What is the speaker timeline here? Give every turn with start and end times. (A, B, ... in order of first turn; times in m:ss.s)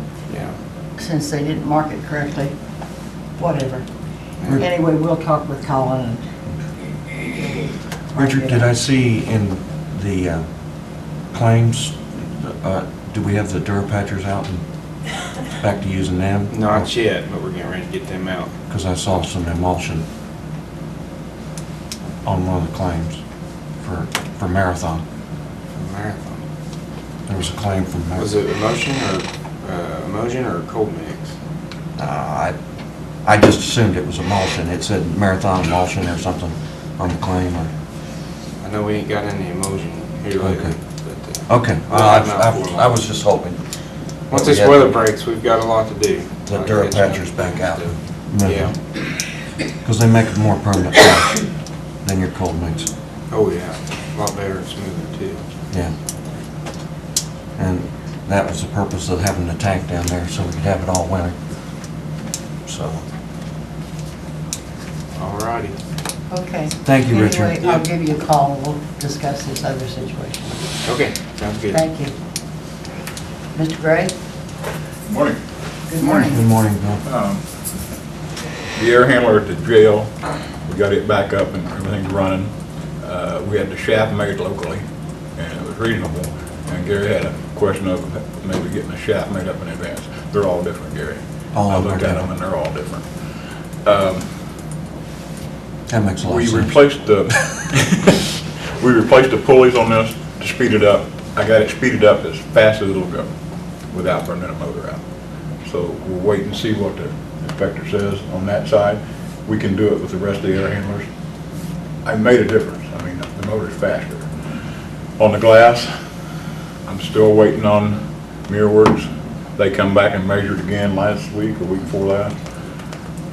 0:00.3-0:00.6 A
0:01.0-0:02.5 B
0:03.4-0:03.8 B
0:04.4-0:04.7 A
0:04.5-0:06.2 B
0:08.1-0:08.6 B
0:08.2-0:10.4 C
0:11.3-0:14.6 C
0:15.5-0:16.9 C
0:16.5-0:18.5 A
0:18.7-0:20.0 C
0:22.2-0:23.2 C
0:23.8-0:25.0 C
0:25.7-0:26.4 A
0:27.3-0:28.3 C
0:28.2-0:31.3 A
0:32.0-0:32.6 C
0:33.2-0:37.7 C
0:38.6-0:43.0 A
0:40.4-0:40.7 C
0:41.5-0:43.6 C
0:44.3-0:48.8 A
0:44.3-0:44.9 C
0:46.5-0:48.8 C
0:49.8-0:51.5 C
0:52.0-0:52.9 C
0:53.3-0:55.4 A
0:57.6-1:01.4 C
1:02.7-1:03.0 C
1:05.2-1:05.8 A
1:06.3-1:10.6 B
1:06.8-1:07.7 C
1:10.8-1:11.8 A
1:11.7-1:12.1 B
1:13.6-1:14.1 B
1:15.1-1:15.4 D
1:15.9-1:16.4 B
1:16.0-1:17.0 C
1:17.0-1:17.4 D
1:18.8-1:20.1 D
1:20.7-1:24.8 D
1:25.4-1:33.1 D
1:31.6-1:32.3 C
1:33.8-1:34.3 D
1:35.9-1:36.8 C
1:36.3-1:43.3 D
1:43.9-1:45.0 D
1:45.6-1:51.1 D
1:52.0-1:54.3 D
1:55.2-1:55.9 D
1:56.9-2:02.4 D